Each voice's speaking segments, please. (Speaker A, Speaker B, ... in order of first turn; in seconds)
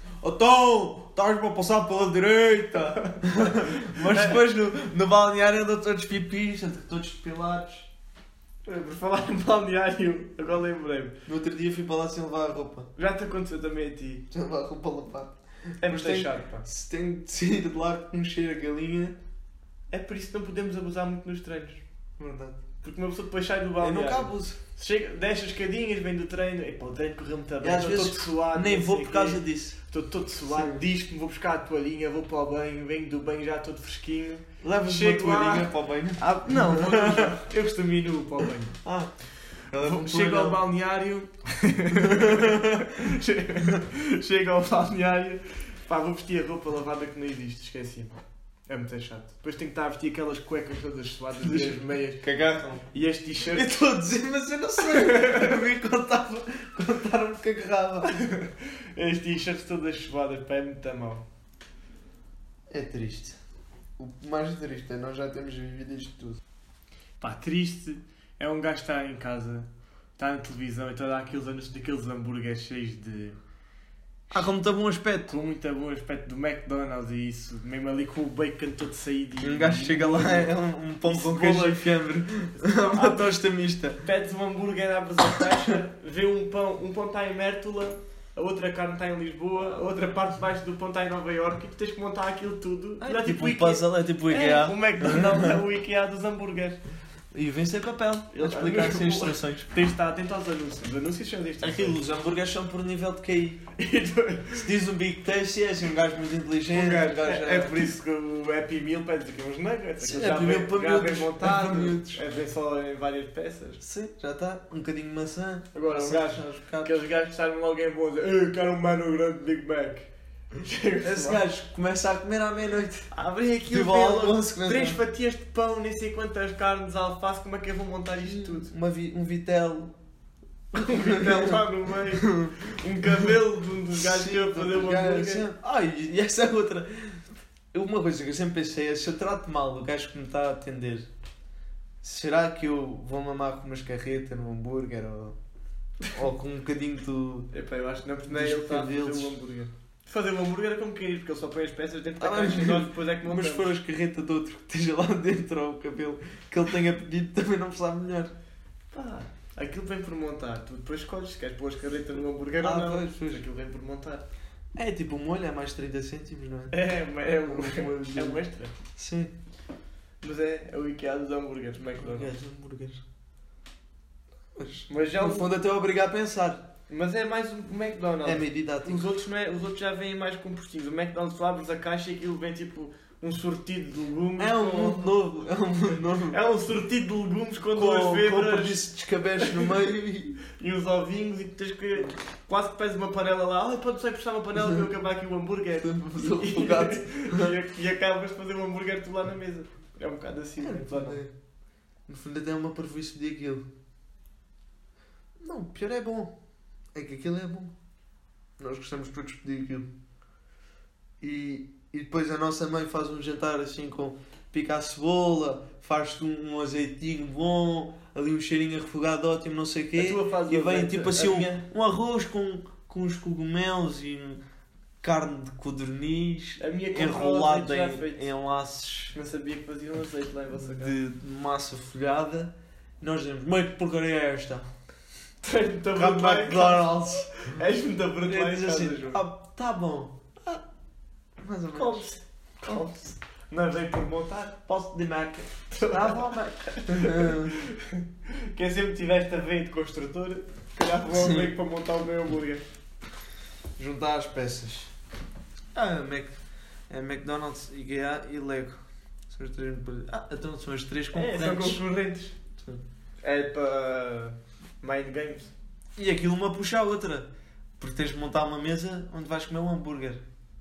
Speaker A: 0.2-7.9, 11.3-12.9, 14.3-19.2, 22.2-22.6, 23.8-24.6, 27.6-29.8, 30.5-30.8, 34.6-37.3, 38.8-39.1, 39.7-40.6, 41.9-42.9, 51.4-52.9, 53.5-58.2, 62.7-63.4, 64.0-66.4, 74.3-75.3, 79.4-84.0, 93.0-95.6, 97.3-99.7, 101.6-103.6, 104.5-107.8, 110.0-112.2, 113.8-117.0, 121.0-123.1, 123.7-125.0, 128.2-129.9, 130.8-131.6, 132.1-133.3, 133.9-141.1, 142.0-145.4, 146.1-147.5, 148.3-149.4, 152.2-158.3, 162.6-163.4, 164.8-166.8, 167.4-168.4, 169.0-169.3, 172.0-173.0, 174.6-176.7, 178.2-179.1, 184.4-186.4, 187.7-190.4, 195.8-197.6, 200.6-201.3, 202.1-203.7, 205.4-206.3, 206.9-207.7, 208.6-209.9, 211.2-224.4, 225.0-229.2, 230.6-234.7, 236.0-237.3, 238.3-240.6, 241.4-242.1, 244.7-247.6, 251.1-251.6, 253.8-254.9, 255.7-256.4, 256.9-261.8, 266.0-267.3, 267.8-270.2
Speaker B: 3.0-4.4, 8.7-11.2, 13.0-14.2, 15.8-16.7, 19.9-21.8, 22.8-38.8, 39.8-52.2, 52.9-53.7, 54.8-55.6, 58.1-61.2, 67.2-73.4, 75.3-81.9, 82.6-83.4, 84.0-96.8, 98.3-102.0, 103.8-104.7, 106.7-113.8, 115.7-121.4, 123.1-128.7, 130.7-135.5, 147.5-153.8, 158.9-164.2, 166.7-168.8, 170.2-172.3, 174.9-175.5, 176.9-185.2, 186.2-188.8, 189.4-189.7, 190.6-201.2, 220.0-221.6, 226.6-228.3, 229.1-231.0, 235.4-239.2, 241.7-244.6, 245.7-252.7, 261.1-262.4, 263.2-265.5